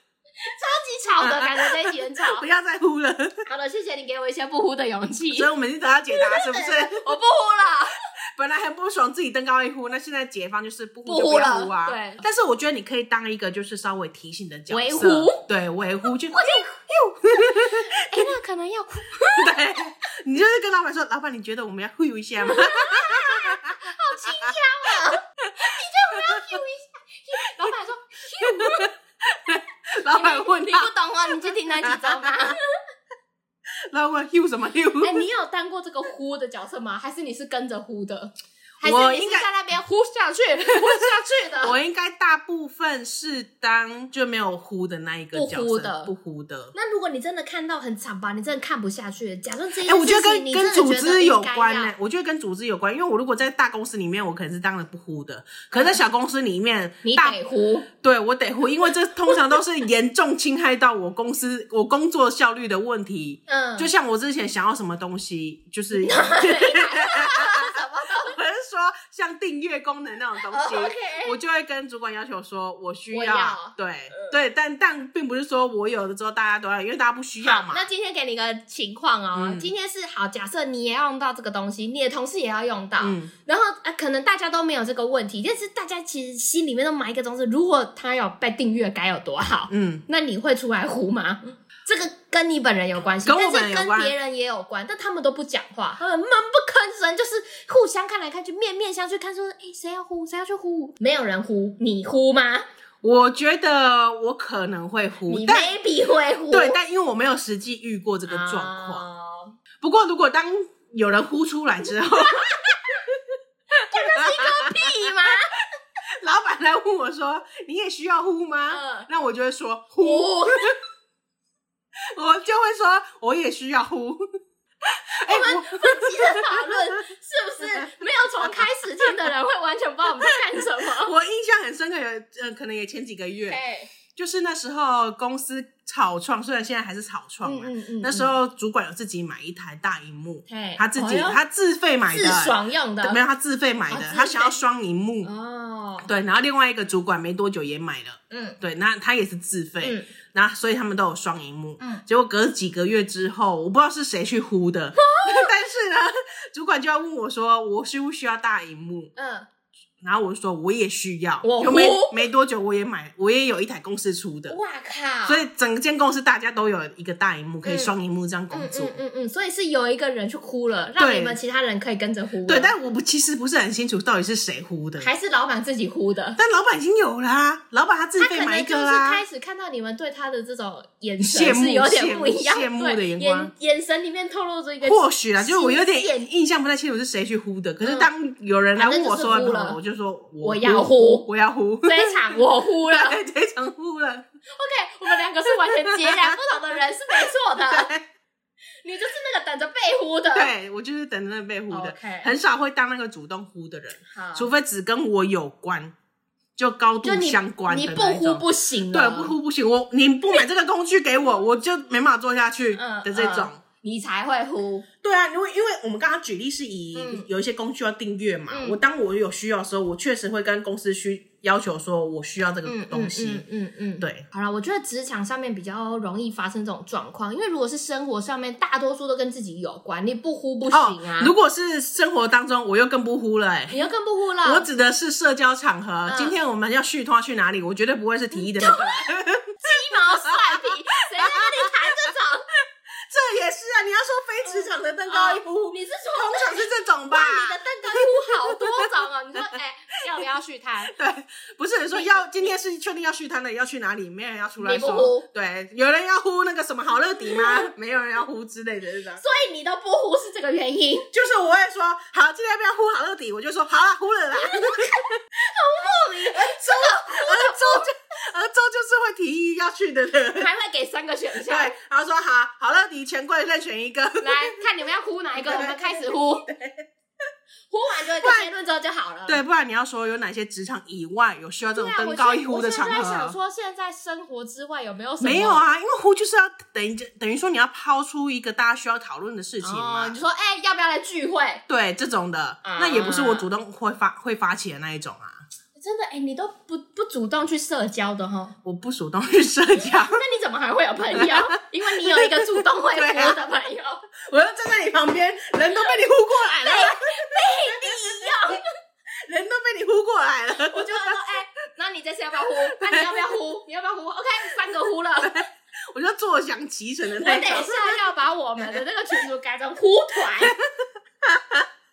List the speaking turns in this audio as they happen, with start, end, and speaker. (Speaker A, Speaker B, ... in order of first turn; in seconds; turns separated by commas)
Speaker A: 0.4-2.4, Speaker B: 1.2-3.5, Speaker A: 3.5-5.5, Speaker B: 5.3-7.1, Speaker A: 6.1-8.0, Speaker B: 8.3-18.3, Speaker A: 11.1-12.2, Speaker A: 14.7-15.4, Speaker A: 16.3-19.6, Speaker B: 19.2-23.9, Speaker A: 22.4-28.9, Speaker B: 28.4-30.9, Speaker A: 30.1-32.6, Speaker B: 31.8-32.3, Speaker B: 33.9-35.2, Speaker A: 35.0-41.8, Speaker B: 38.8-39.5, Speaker B: 40.7-41.1, Speaker B: 41.6-46.7, Speaker A: 45.3-46.1, Speaker A: 46.7-51.9, Speaker B: 49.8-57.4, Speaker A: 55.7-56.0, Speaker A: 57.0-57.9, Speaker B: 57.9-77.8, Speaker A: 63.5-63.9, Speaker A: 66.0-68.4, Speaker A: 70.5-71.3, Speaker A: 73.1-74.3, Speaker A: 77.4-102.6, Speaker B: 79.3-79.7, Speaker B: 83.0-83.3, Speaker B: 89.7-90.0, Speaker B: 93.2-94.1, Speaker B: 103.0-105.7, Speaker A: 105.3-106.8, Speaker B: 106.5-109.0, Speaker A: 108.3-109.5, Speaker B: 109.8-112.5, Speaker A: 112.2-113.0, Speaker B: 113.7-115.1, Speaker A: 113.9-115.5, Speaker B: 116.2-120.8, Speaker A: 118.7-119.1, Speaker A: 120.0-120.7, Speaker B: 122.1-124.2, Speaker B: 124.8-126.7, Speaker A: 125.2-131.1, Speaker B: 131.0-133.6, Speaker A: 133.5-133.9, Speaker B: 134.1-145.3, Speaker A: 137.4-138.3, Speaker A: 140.5-141.4, Speaker A: 142.1-143.2, Speaker A: 143.9-144.6, Speaker A: 145.2-146.1, Speaker B: 146.0-159.1, Speaker A: 148.3-148.6, Speaker A: 149.8-150.1, Speaker A: 155.0-155.5, Speaker A: 159.2-159.5, Speaker B: 160.0-164.6, Speaker A: 161.4-162.2, Speaker A: 164.5-165.4, Speaker B: 165.2-168.9, Speaker A: 167.6-167.9, Speaker A: 168.5-172.7, Speaker B: 171.0-171.4, Speaker B: 172.4-175.1, Speaker A: 175.0-176.4, Speaker B: 176.3-179.2, Speaker A: 178.2-186.2, Speaker B: 181.2-183.5, Speaker B: 184.8-194.3, Speaker A: 187.8-188.1, Speaker A: 188.8-189.8, Speaker A: 190.4-191.2, Speaker A: 191.8-193.2, Speaker A: 194.5-197.9, Speaker B: 195.7-196.4, Speaker B: 197.7-198.1, Speaker A: 198.8-200.5, Speaker B: 200.3-205.9, Speaker A: 201.7-202.3, Speaker A: 204.0-204.5, Speaker B: 206.6-213.6, Speaker A: 207.0-209.3, Speaker A: 212.7-214.8, Speaker B: 215.0-223.4, Speaker A: 216.9-217.3, Speaker A: 218.5-218.8, Speaker A: 222.7-231.3, Speaker B: 224.0-224.2, Speaker B: 230.7-233.8, Speaker A: 233.7-234.7, Speaker B: 234.4-242.1, Speaker A: 236.1-236.3, Speaker A: 238.4-242.4, Speaker B: 243.1-248.9, Speaker A: 244.4-250.9, Speaker B: 250.8-259.2, Speaker A: 251.9-252.5, Speaker A: 254.6-255.3, Speaker A: 257.2-257.7, Speaker A: 259.2-261.1, Speaker B: 261.1-265.1, Speaker A: 264.4-267.9, Speaker B: 266.3-270.5, Speaker A: 270.4-271.7, Speaker B: 271.4-274.6, Speaker A: 274.2-276.5, Speaker B: 275.4-276.8, Speaker A: 277.7-279.4, Speaker B: 278.2-278.5, Speaker B: 279.3-283.3, Speaker A: 281.8-285.6, Speaker B: 285.2-290.2, Speaker A: 289.6-291.6, Speaker B: 291.7-295.4, Speaker A: 292.6-293.5, Speaker A: 295.8-298.6, Speaker B: 298.6-300.2, Speaker A: 299.8-304.0, Speaker B: 301.1-302.4, Speaker B: 302.9-303.4, Speaker B: 304.3-308.5, Speaker A: 306.6-308.6, Speaker B: 309.3-311.2, Speaker A: 310.6-315.4, Speaker B: 312.7-313.2, Speaker B: 315.2-318.0, Speaker A: 317.2-320.6, Speaker B: 321.2-321.6